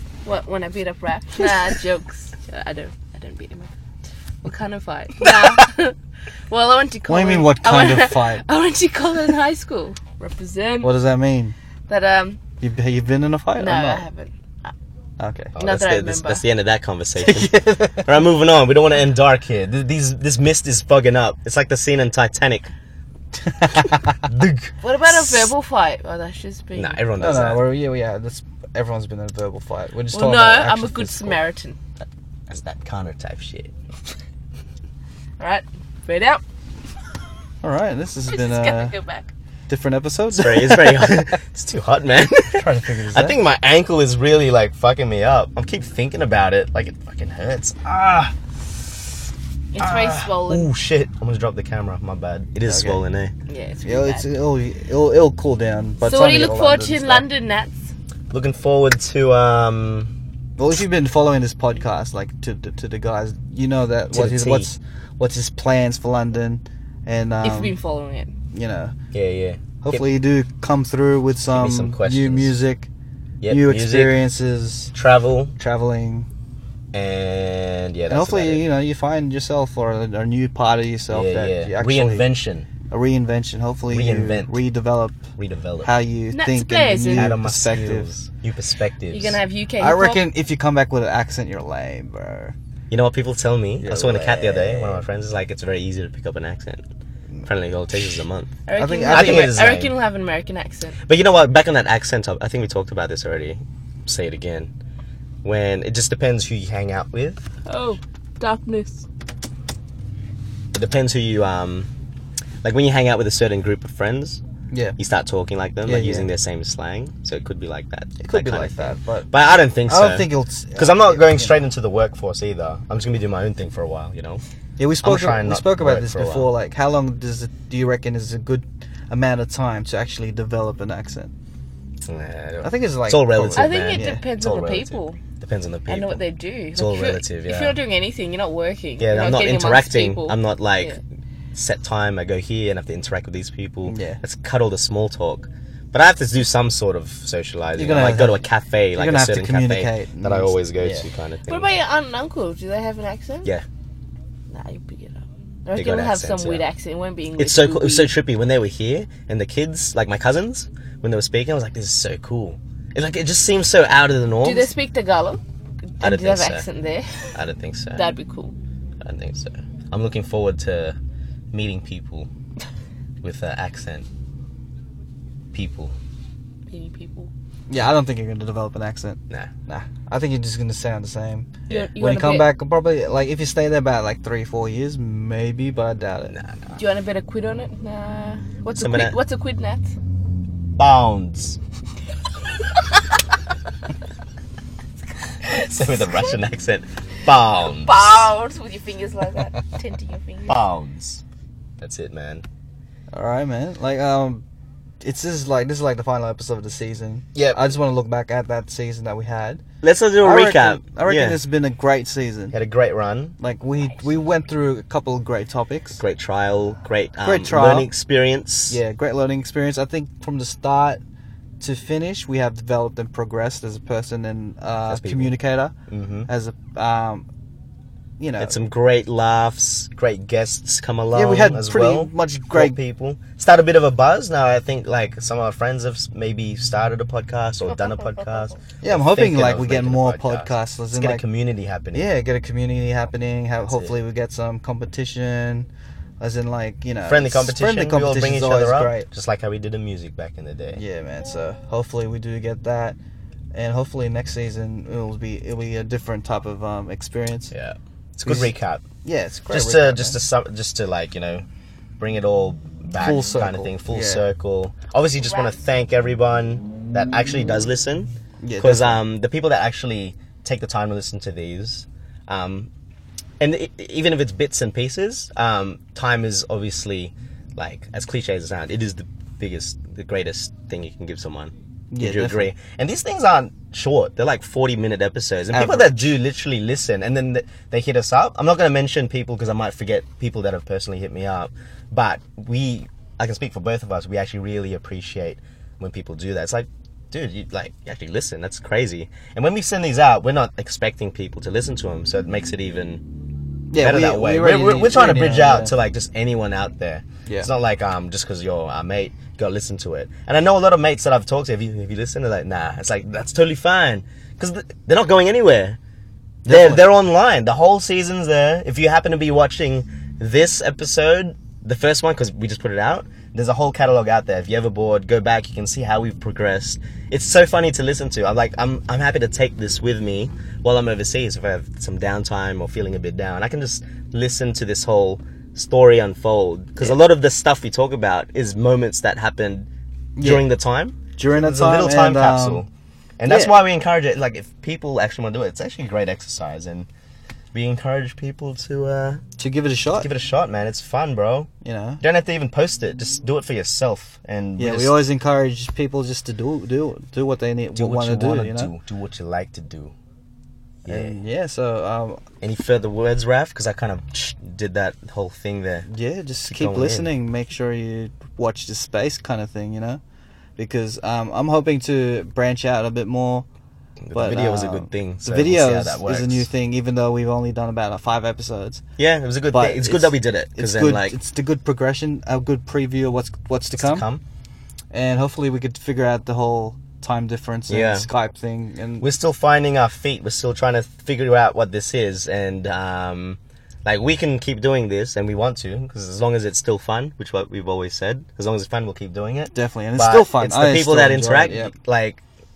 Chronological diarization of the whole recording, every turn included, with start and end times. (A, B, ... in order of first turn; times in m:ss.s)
0:00.2-0:03.7 A
0:04.4-0:06.0 A
0:06.5-0:10.9 A
0:07.1-0:08.4 B
0:10.8-0:11.5 B
0:11.9-0:12.4 A
0:12.6-0:14.0 B
0:13.6-0:14.7 A
0:15.2-0:15.5 B
0:15.5-0:22.7 C
0:15.6-0:16.4 A
0:17.2-0:18.1 B
0:23.5-0:24.2 B
0:24.2-0:25.5 C
0:24.8-0:27.0 A
0:26.7-0:27.6 C
0:27.2-0:31.4 B
0:30.1-0:31.8 A
0:32.5-0:33.7 C
0:35.4-0:36.4 A
0:37.6-0:38.9 B
0:38.3-0:39.3 A
0:39.7-0:41.3 B
0:40.3-0:48.3 C
0:42.5-0:43.4 B
0:49.7-0:50.7 A
0:49.8-0:53.3 C
0:52.6-0:53.0 B
0:53.5-0:54.3 A
0:53.8-0:57.2 B
0:56.0-0:57.8 A
0:58.3-1:00.1 C
1:00.6-1:07.7 B
1:04.1-1:04.7 C
1:07.4-1:08.4 A
1:08.5-1:08.9 B
1:09.1-1:10.0 C
1:09.8-1:12.9 B
1:11.5-1:12.5 C
1:13.4-1:14.2 C
1:13.5-1:14.9 B
1:14.9-1:15.5 C
1:15.6-1:16.3 B
1:16.9-1:18.6 C
1:18.1-1:22.2 B
1:21.1-1:22.7 C
1:22.9-1:25.2 B
1:23.9-1:24.6 C
1:25.4-1:25.9 C
1:25.8-1:28.1 B
1:26.3-1:27.3 A
1:27.1-1:29.4 C
1:29.1-1:30.2 A
1:29.8-1:32.6 B
1:32.9-1:36.8 C
1:33.8-1:35.0 B
1:37.4-1:38.5 C
1:38.6-1:41.0 A
1:38.8-1:39.6 B
1:39.1-1:39.9 C
1:41.0-1:44.7 C
1:45.4-1:47.4 C
1:47.6-1:49.0 A
1:50.7-1:51.9 C
1:52.6-1:54.4 C
1:54.7-1:55.0 B
1:55.0-2:04.4 C
1:55.8-1:56.3 B
1:58.2-1:59.3 B
1:59.8-2:01.6 B
2:04.8-2:11.3 B
2:05.0-2:06.5 C
2:12.0-2:16.2 C
2:12.6-2:14.2 B
2:13.5-2:15.2 A
2:15.9-2:21.0 A
2:16.7-2:17.8 C
2:19.0-2:21.0 C
2:21.5-2:31.7 C
2:23.8-2:24.2 B
2:27.8-2:31.0 B
2:31.5-2:33.5 A
2:34.5-2:38.1 A
2:35.7-2:36.6 C
2:37.4-2:44.7 C
2:44.4-2:45.4 A
2:46.0-2:47.3 A
2:46.0-2:46.6 C
2:47.3-2:48.1 C
2:48.0-2:48.5 A
2:49.0-2:51.0 C
2:51.5-2:52.3 C
2:53.2-2:54.0 C
2:55.5-2:55.9 C
2:56.7-2:57.3 A
2:57.7-3:06.3 B
3:01.7-3:02.5 A
3:06.3-3:06.8 C
3:06.8-3:09.9 A
3:08.8-3:09.2 C
3:10.8-3:11.6 C
3:15.4-3:18.3 C
3:17.7-3:20.6 A
3:20.5-3:21.2 C
3:21.8-3:22.4 C
3:23.1-3:24.4 B
3:25.0-3:29.6 B
3:27.3-3:27.6 C
3:29.8-3:31.4 C
3:30.2-3:32.6 B
3:32.5-3:33.3 C
3:33.4-3:36.0 B
3:36.0-3:38.8 C
3:37.2-3:37.9 B
3:38.7-3:41.0 B
3:41.6-3:45.7 B
3:44.9-3:45.3 C
3:45.9-3:46.3 C
3:46.3-3:47.2 B
3:48.2-3:48.6 B
3:48.4-4:02.1 C
3:51.1-3:52.8 B
3:57.6-3:58.6 A
3:58.8-4:01.2 B
4:01.9-4:05.7 B
4:06.2-4:09.1 B
4:07.1-4:10.8 C
4:10.8-4:13.0 B
4:13.5-4:17.5 B
4:17.5-4:18.8 C
4:18.2-4:20.2 B
4:19.5-4:21.4 C
4:22.0-4:32.7 C
4:23.0-4:24.2 B
4:28.4-4:29.0 B
4:33.4-5:03.0 C
4:41.9-4:42.5 B
4:45.5-4:46.0 B
5:03.7-5:05.7 B
5:03.8-5:15.8 C
5:16.4-5:39.7 C
5:16.5-5:16.8 B
5:40.2-5:40.5 B
5:40.2-5:42.7 C
5:41.2-5:42.6 B
5:43.2-5:46.9 C
5:43.3-5:43.5 B
5:47.5-5:49.2 C
5:49.4-5:50.1 B
5:49.9-5:51.5 C
5:51.6-5:52.0 B
5:52.0-5:55.0 C
5:54.6-5:58.7 B
5:57.7-5:59.9 C
6:00.8-6:01.1 C
6:00.8-6:02.2 B
6:02.4-6:05.9 C
6:05.9-6:10.0 B
6:06.5-6:07.1 C
6:10.6-6:13.4 B
6:14.0-6:16.4 C
6:14.1-6:18.8 B
6:19.0-6:21.2 C
6:19.5-6:24.0 B
6:23.7-6:24.2 C
6:24.9-6:29.1 B
6:27.7-6:28.1 C
6:29.0-6:42.2 C
6:39.5-6:41.7 B